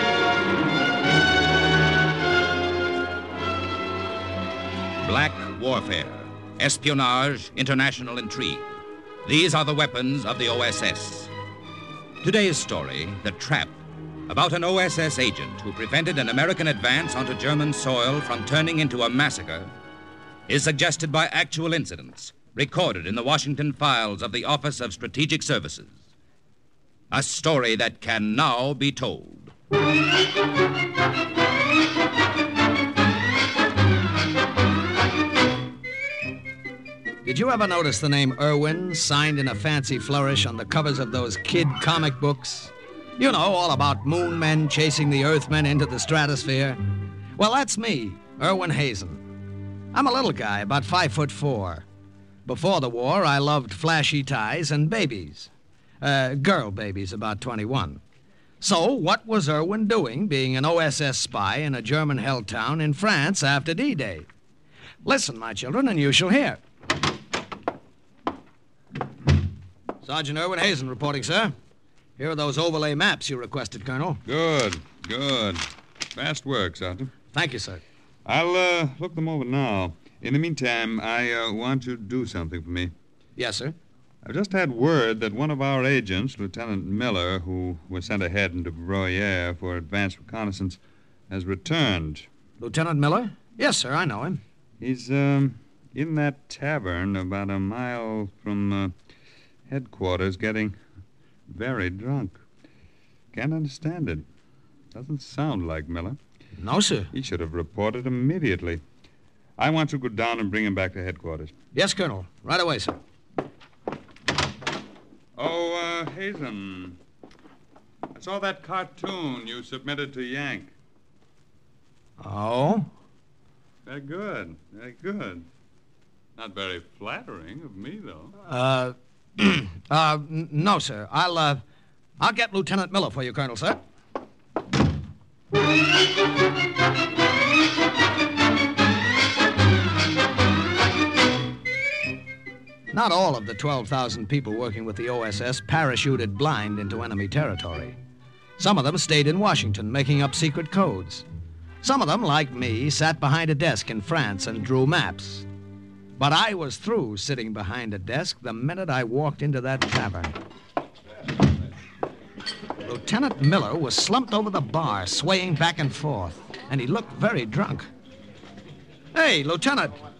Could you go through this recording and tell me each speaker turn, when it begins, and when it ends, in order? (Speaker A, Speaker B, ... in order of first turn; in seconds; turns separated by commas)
Speaker A: 5.0-8.7, Speaker A: 9.2-11.3, Speaker A: 12.2-19.7, Speaker A: 20.5-26.0, Speaker A: 27.1-29.5, Speaker B: 37.2-46.8, Speaker B: 47.4-49.2, Speaker B: 49.9-51.9, Speaker B: 52.5-58.0, Speaker B: 58.6-64.3, Speaker B: 65.0-66.6, Speaker B: 70.0-71.5, Speaker B: 72.2-74.2, Speaker C: 74.2-75.6, Speaker C: 76.1-77.1, Speaker B: 77.3-77.8, Speaker C: 78.2-82.9, Speaker B: 83.4-83.8, Speaker C: 84.2-92.3, Speaker B: 92.6-94.4, Speaker C: 94.8-98.9, Speaker C: 99.7-100.8, Speaker C: 101.5-102.4, Speaker C: 103.3-104.3, Speaker C: 104.9-106.2, Speaker B: 106.6-107.1, Speaker C: 107.1-108.8, Speaker C: 109.6-111.5, Speaker B: 111.7-113.0, Speaker C: 115.3-117.0, Speaker C: 118.1-120.7, Speaker B: 122.2-122.9, Speaker C: 123.8-125.5, Speaker C: 126.4-128.3, Speaker B: 128.4-131.6, Speaker B: 132.2-133.8, Speaker B: 142.9-148.0, Speaker B: 148.6-151.3, Speaker B: 151.8-155.5, Speaker B: 156.2-160.3, Speaker B: 162.8-167.9, Speaker B: 169.1-170.0